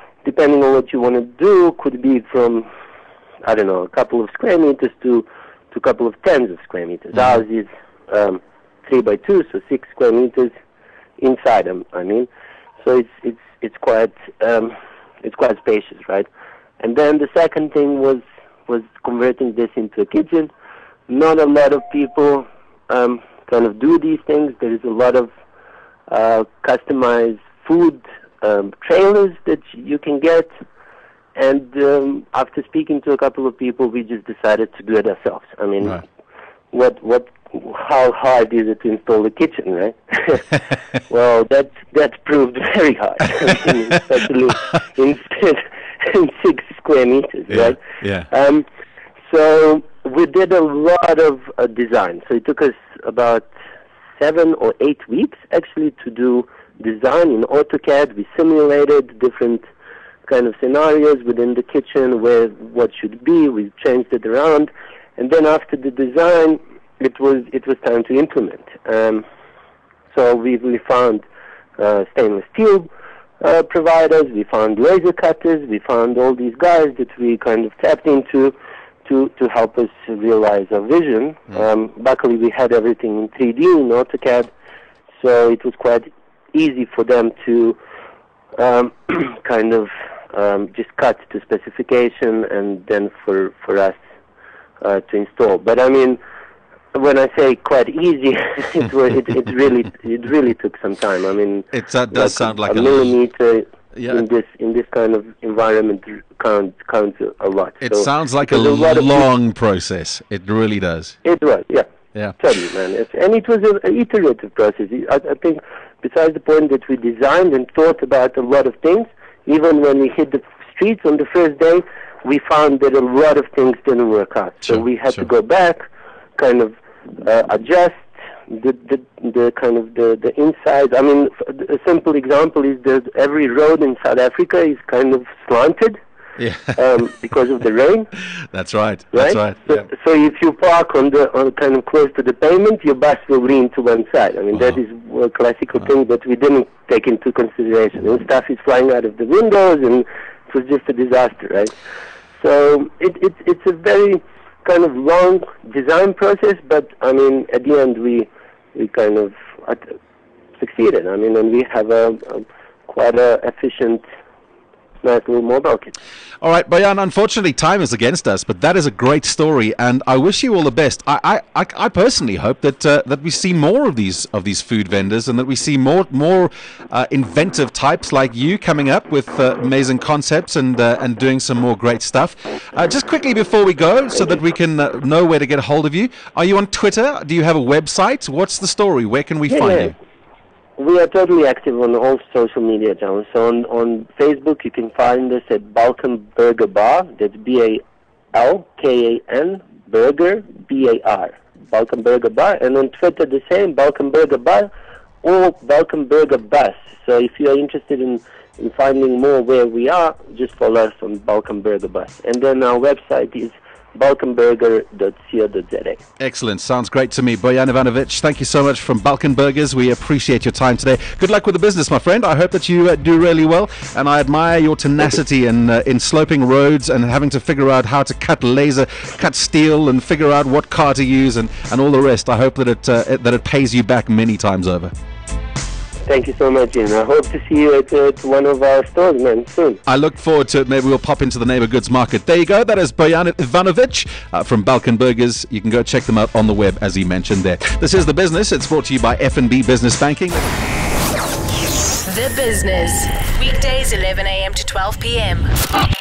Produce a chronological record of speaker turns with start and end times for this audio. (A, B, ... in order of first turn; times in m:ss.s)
0:00.2-0:02.7 A
0:03.4-0:10.5 A
0:11.2-0:12.3 A
0:12.8-0:16.3 A
0:16.8-0:20.5 A
0:21.1-0:25.3 A
0:26.1-0:30.5 A
0:31.3-0:36.0 A
0:36.7-0:48.6 A
0:47.5-0:48.3 B
0:49.3-0:53.5 A
0:54.2-0:59.6 A
1:00.2-1:09.2 A
1:10.1-1:11.2 A
1:11.8-1:12.9 A
1:13.4-1:24.5 A
1:25.2-1:27.8 A
1:28.6-1:34.0 A
1:34.8-1:36.2 A
1:36.9-1:49.2 A
1:41.7-1:43.2 B
1:43.9-1:44.2 B
1:47.8-1:51.2 B
1:51.2-2:05.8 A
2:06.4-2:16.0 A
2:16.4-2:16.8 B
2:16.8-2:18.1 A
2:18.5-2:19.8 B
2:19.1-2:31.7 A
2:32.4-2:39.9 A
2:40.6-2:44.0 A
2:45.0-2:45.9 A
2:46.4-3:09.9 B
3:09.5-3:09.9 A
3:10.8-3:17.8 A
3:18.3-3:24.7 A
3:25.2-3:36.0 A
3:36.2-3:54.9 B
3:56.0-3:59.8 A
3:59.8-4:10.4 B
4:12.0-4:15.5 C